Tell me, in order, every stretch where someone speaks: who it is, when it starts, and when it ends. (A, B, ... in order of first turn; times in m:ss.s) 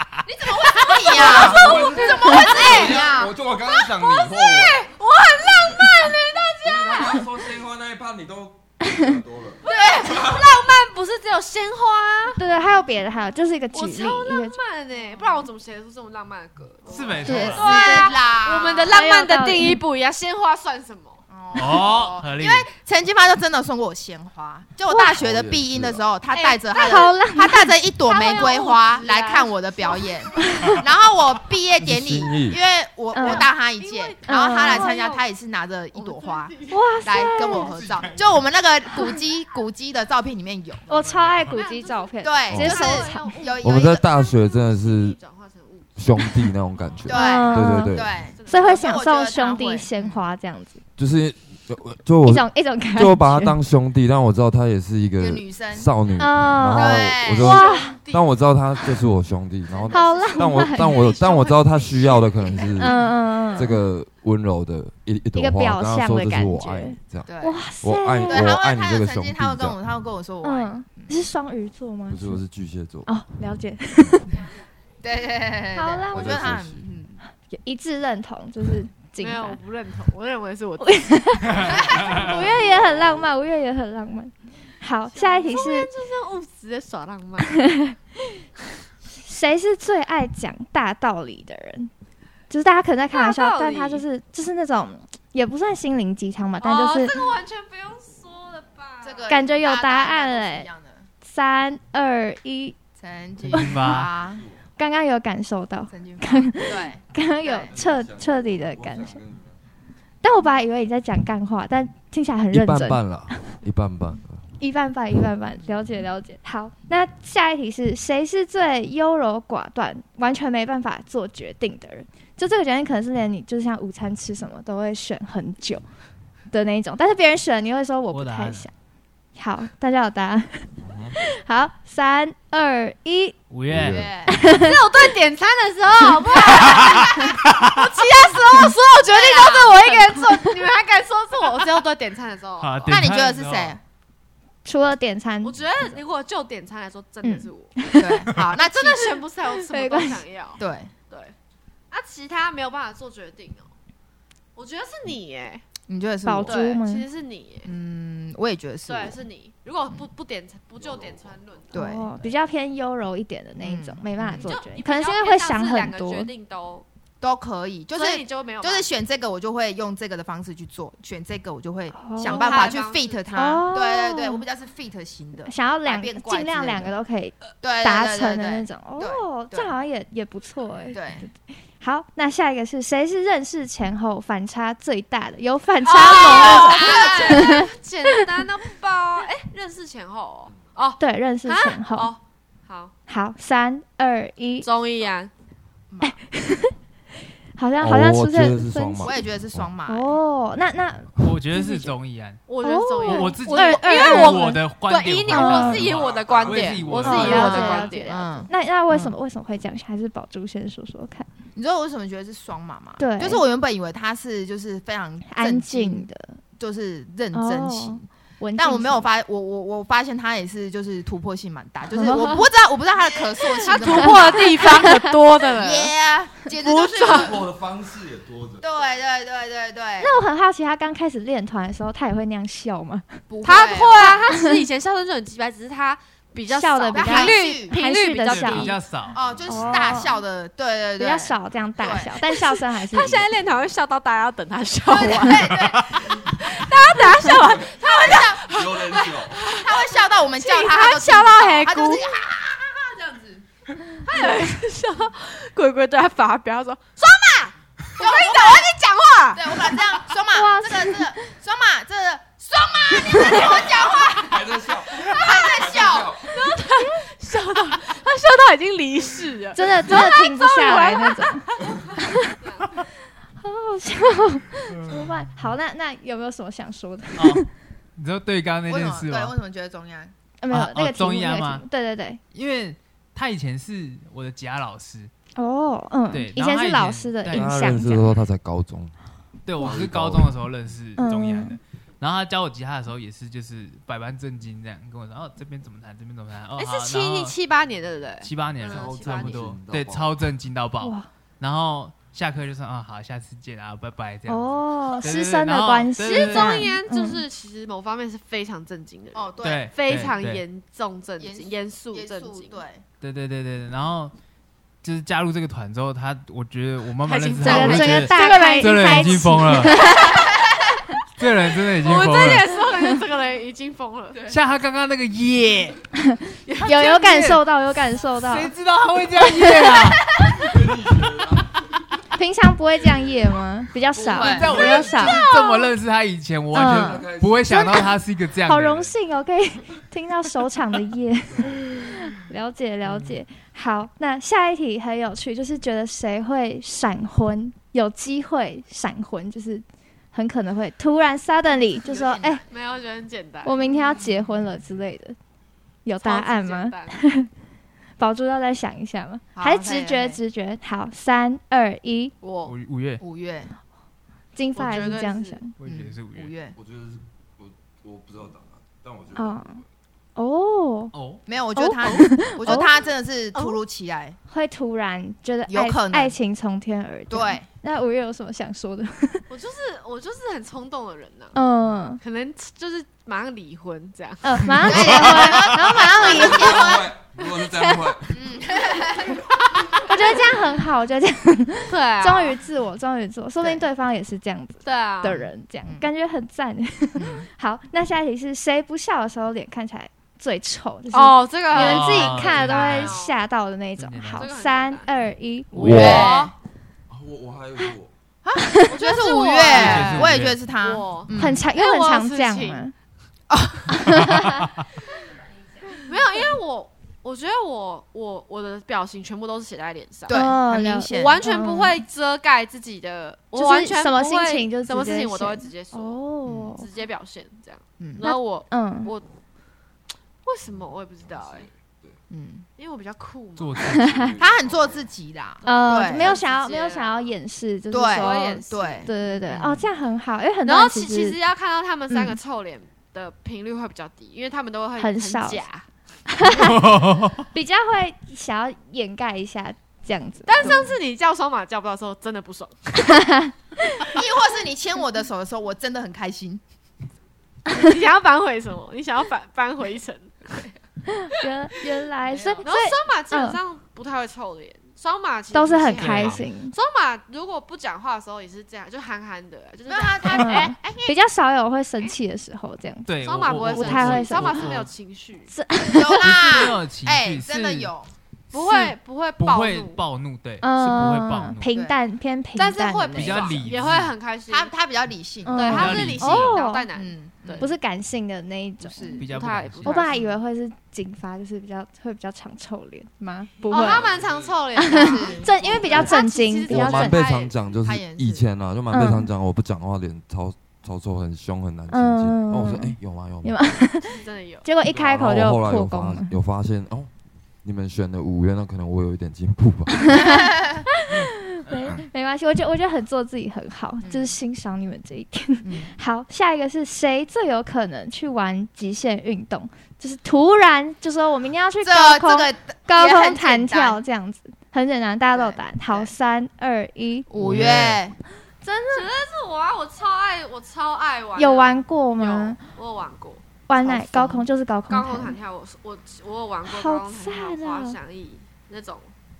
0:00.3-0:03.1 A
0:00.4-0:03.3 B
0:01.2-0:04.9 C
0:02.3-0:02.5 D
0:03.7-0:07.3 A
0:06.6-0:10.5 C
0:09.6-0:12.4 A
0:09.6-0:10.3 B
0:12.4-0:14.6 D
0:13.7-0:21.2 A
0:16.9-0:17.9 E
0:17.2-0:18.1 D
0:17.3-0:19.0 B
0:18.9-0:19.8 D
0:21.3-0:41.1 B
0:21.5-0:22.7 E
0:24.9-0:25.2 D
0:25.0-0:26.0 C
0:26.3-0:27.1 A
0:26.6-0:28.6 D
0:28.0-0:30.1 A
0:30.3-0:30.8 D
0:31.8-0:32.6 C
0:33.1-0:33.5 D
0:33.2-0:35.2 A
0:34.2-0:35.0 D
0:35.9-0:36.8 A
0:36.7-0:37.8 D
0:40.9-0:43.6 D
0:41.3-0:41.6 E
0:41.5-0:46.5 A
0:42.2-0:44.1 B
0:42.5-0:42.8 C
0:43.6-0:45.2 C
0:46.0-0:48.1 C
0:47.0-0:50.2 B
0:47.1-0:50.8 D
0:48.2-0:49.0 A
0:51.0-1:09.8 C
0:52.2-0:53.6 D
0:55.2-0:55.9 B
0:56.2-0:58.0 D
0:56.7-0:57.7 B
0:57.4-0:58.3 A
0:59.8-1:01.5 B
0:59.9-1:01.0 D
0:59.9-1:02.7 A
1:02.5-1:02.9 B
1:02.7-1:03.8 D
1:05.3-1:08.6 D
1:07.2-1:07.6 B
1:08.3-1:11.2 B
1:10.4-1:12.4 D
1:12.1-1:13.1 C
1:13.0-1:14.4 D
1:15.0-1:17.2 B
1:15.7-1:16.6 D
1:16.1-1:16.8 C
1:17.5-1:19.6 D
1:19.2-1:22.3 A
1:20.8-1:25.9 D
1:21.7-1:22.5 B
1:25.1-1:27.6 A
1:27.5-1:28.0 D
1:29.2-1:31.9 D
1:32.5-1:37.3 D
1:33.1-1:34.0 A
1:36.6-1:39.4 A
1:39.0-1:41.1 B
1:39.3-1:40.7 D
1:41.2-1:42.8 D
1:43.0-1:44.4 B
1:43.5-1:44.1 E
1:44.8-1:49.2 D
1:45.9-1:47.7 B
1:47.7-1:49.6 C
1:50.2-1:53.5 D
1:52.5-1:54.4 C
1:54.6-2:05.8 D
2:06.5-2:08.7 D
2:08.1-2:08.7 E
2:09.4-2:13.4 D
2:10.8-2:11.2 C
2:13.5-2:14.1 E
2:13.7-2:14.1 C
2:13.9-2:14.4 B
2:14.2-2:15.1 D
2:14.4-2:23.0 A
2:16.0-2:16.4 D
2:16.5-2:17.8 E
2:19.1-2:19.7 B
2:19.6-2:20.6 D
2:22.6-2:23.8 E
2:22.9-2:23.8 B
2:24.6-2:26.0 D
2:25.4-2:27.8 A
2:27.2-2:28.3 D
2:28.0-2:29.2 B
2:28.6-2:31.3 A
2:29.5-2:30.2 D
2:30.6-2:30.9 B
2:31.9-2:33.7 A
2:34.6-2:35.6 A
2:35.9-2:36.8 B
2:36.2-2:37.0 D
2:36.4-2:37.7 A
2:37.6-2:39.2 B
2:38.9-2:41.8 A
2:40.8-2:41.4 C
2:41.7-2:42.1 B
2:41.7-2:46.3 D
2:43.6-2:44.4 B
2:44.4-2:46.8 A
2:47.2-2:56.9 B
2:47.9-2:48.9 A
2:51.9-2:54.4 D
2:52.2-2:53.3 A
2:55.4-3:01.1 D
2:57.6-2:59.7 B
3:00.9-3:01.2 B
3:01.8-3:08.3 D
3:05.8-3:12.9 A
3:06.0-3:07.6 B
3:11.0-3:12.1 D
3:13.1-3:14.7 D
3:14.6-3:15.3 A
3:15.9-3:16.2 B
3:16.0-3:16.7 D
3:17.6-3:19.3 D
3:17.8-3:19.7 C
3:19.0-3:20.2 B
3:19.9-3:21.9 D
3:21.2-3:22.5 E
3:22.5-3:28.3 A
3:22.6-3:24.6 D
3:23.0-3:27.6 E
3:25.3-3:25.8 D
3:25.8-3:26.8 C
3:27.0-3:31.3 D
3:27.1-3:29.1 B
3:31.5-3:38.0 B
3:33.0-3:33.4 D
3:35.2-3:36.4 D
3:37.3-3:39.1 D
3:38.6-3:44.9 B
3:41.9-3:42.5 D
3:43.6-3:45.9 A
3:43.9-3:45.2 D
3:45.5-3:47.4 B
3:46.5-3:47.4 A
3:47.0-3:48.7 C
3:48.6-3:50.2 B
3:50.0-3:53.2 D
3:53.3-3:54.2 B
3:53.4-3:58.8 A
3:54.0-3:54.6 D
3:56.5-3:58.8 D
3:56.9-3:57.8 B
3:58.2-3:59.2 E
3:59.1-4:02.3 B
3:59.1-3:59.8 C
3:59.5-4:00.2 D
4:01.0-4:03.3 D
4:02.3-4:12.3 A
4:04.9-4:06.0 B
4:07.3-4:07.9 C
4:07.8-4:08.4 B
4:08.4-4:09.4 C
4:09.6-4:13.4 B
4:14.0-4:19.8 A
4:18.0-4:18.7 B
4:19.3-4:26.2 B
4:20.3-4:21.0 D
4:23.1-4:26.4 C
4:25.3-4:32.7 A
4:29.5-4:32.4 D
4:33.4-4:37.5 D
4:37.2-4:37.4 E
4:38.0-4:39.4 E
4:38.6-4:40.1 B
4:40.4-4:42.2 D
4:40.5-4:41.6 E
4:42.3-4:45.1 E
4:45.4-4:48.2 D
4:46.1-4:47.6 E
4:47.3-4:48.9 C
4:49.4-4:57.3 E
4:49.6-4:50.5 C
4:51.0-4:51.6 D
4:56.6-4:59.5 A
4:58.2-5:06.7 E
4:58.6-5:00.2 C
5:00.8-5:01.1 D
5:04.2-5:07.2 D
5:06.0-5:12.6 A
5:09.1-5:10.1 B
5:09.4-5:10.4 E
5:11.2-5:12.8 B
5:13.0-5:14.1 E
5:14.8-5:19.9 E
5:17.0-5:19.1 A
5:17.4-5:20.3 D
5:18.2-5:18.5 B
5:19.7-5:20.4 A
5:21.2-5:22.6 E
5:21.8-5:24.3 A
5:24.3-5:25.8 E
5:26.0-5:28.5 D
5:26.5-5:26.8 A
5:26.6-5:27.4 E
5:28.2-5:30.2 E
5:29.3-5:29.9 D
5:30.4-5:31.6 C
5:32.2-5:35.6 D
5:34.0-5:35.0 C
5:34.0-5:35.0 B
5:34.2-5:38.9 E
5:36.5-5:52.4 D
5:36.5-5:37.7 C
5:41.3-5:41.8 C
5:51.9-5:52.4 B
5:52.5-5:53.6 A
5:53.4-5:55.2 D
5:53.7-5:54.3 B
5:55.8-5:57.3 D
5:56.0-5:57.0 A
5:58.0-6:02.1 D
5:59.3-6:00.2 B
6:02.2-6:02.5 A
6:02.4-6:03.0 E
6:03.0-6:03.5 B
6:04.3-6:05.6 D
6:04.5-6:05.4 A
6:05.6-6:06.3 E
6:05.6-6:06.6 B
6:06.5-6:09.6 C
6:09.1-6:09.6 D
6:10.2-6:10.9 D
6:10.9-6:11.2 E
6:11.2-6:14.2 B
6:11.6-6:12.9 D
6:14.3-6:19.2 D
6:15.5-6:16.2 B
6:17.1-6:17.5 B
6:19.3-6:21.4 A
6:21.3-6:22.0 D
6:22.0-6:24.7 A
6:24.2-6:26.8 D
6:24.6-6:26.9 B
6:25.5-6:28.2 C
6:28.1-6:30.0 B
6:29.9-6:46.1 D
6:31.7-6:32.4 A
6:34.6-6:35.3 A
6:37.0-6:37.2 B
6:40.9-6:43.2 A
6:41.5-6:43.0 E
6:43.8-6:44.3 E
6:44.2-6:44.9 A
6:45.6-6:46.3 A
6:45.6-6:46.3 B
6:45.6-6:46.2 C
6:46.9-6:47.9 C
6:48.2-6:51.5 B
6:48.4-6:48.8 D
6:48.7-6:52.6 A
6:49.5-6:50.4 E
6:51.2-6:52.7 D
6:53.3-6:54.1 B
6:53.7-6:54.4 D
6:54.1-6:54.6 E
6:55.8-7:00.3 A
7:00.1-7:01.2 B
7:00.1-7:01.8 D
7:00.9-7:09.0 A
7:03.3-7:06.6 D
7:06.3-7:06.5 B
7:08.0-7:08.9 D
7:10.2-7:11.5 A
7:10.5-7:12.0 C
7:12.1-7:12.4 B
7:12.6-7:13.6 A
7:13.4-7:14.1 E
7:13.7-7:14.9 C
7:13.7-7:14.1 D
7:14.2-7:16.2 B
7:15.4-7:17.1 A
7:15.4-7:21.2 D
7:17.7-7:19.7 B
7:17.9-7:18.9 A
7:20.4-7:25.6 A
7:24.8-7:25.4 D
7:26.1-7:26.8 D
7:26.3-7:27.3 E
7:27.3-7:30.7 D
7:30.2-7:33.0 A
7:30.4-7:30.7 B
7:32.8-7:34.0 D
7:33.9-7:36.4 B
7:37.5-7:40.5 A
7:40.9-7:43.4 D
7:42.1-7:42.4 B
7:42.4-7:51.0 A
7:45.3-7:46.5 D
7:45.7-7:46.2 E
7:49.7-7:50.5 B
7:50.1-7:54.6 D
7:52.8-7:54.7 E
7:53.0-7:55.3 A
7:55.3-7:56.5 D
7:55.6-7:57.9 B
7:56.0-7:57.7 E
7:58.3-7:59.8 A
7:58.3-8:01.6 E
8:00.4-8:03.4 D
8:01.5-8:01.8 B
8:02.4-8:04.5 A
8:02.9-8:03.9 E
8:03.2-8:03.5 B
8:04.3-8:06.0 B
8:05.2-8:06.7 D
8:05.3-8:07.5 A
8:05.5-8:06.4 E
8:06.7-8:07.5 B
8:07.4-8:09.0 D
8:08.6-8:09.0 B
8:09.0-8:09.9 E
8:09.0-8:10.0 A
8:09.6-8:13.9 D
8:09.7-8:10.2 B
8:13.4-8:13.7 B
8:13.4-8:17.3 A
8:13.6-8:14.4 C
8:14.5-8:17.1 D
8:14.6-8:16.0 B
8:16.5-8:23.6 C
8:17.0-8:18.2 B
8:18.7-8:19.1 D
8:21.7-8:26.1 D
8:23.9-8:24.4 A
8:24.6-8:26.9 C
8:27.4-8:30.1 C
8:29.8-8:47.1 D
8:33.8-8:34.2 B
8:35.4-8:35.7 B
8:41.6-8:43.8 B
8:45.1-8:45.9 B
8:47.1-8:48.0 B
8:47.2-8:47.8 E
8:48.4-8:48.8 D
8:48.7-8:53.2 A
8:51.2-8:52.4 D
8:53.5-8:55.2 D
8:53.6-8:54.2 B
8:54.7-8:58.9 A
8:56.4-8:57.8 D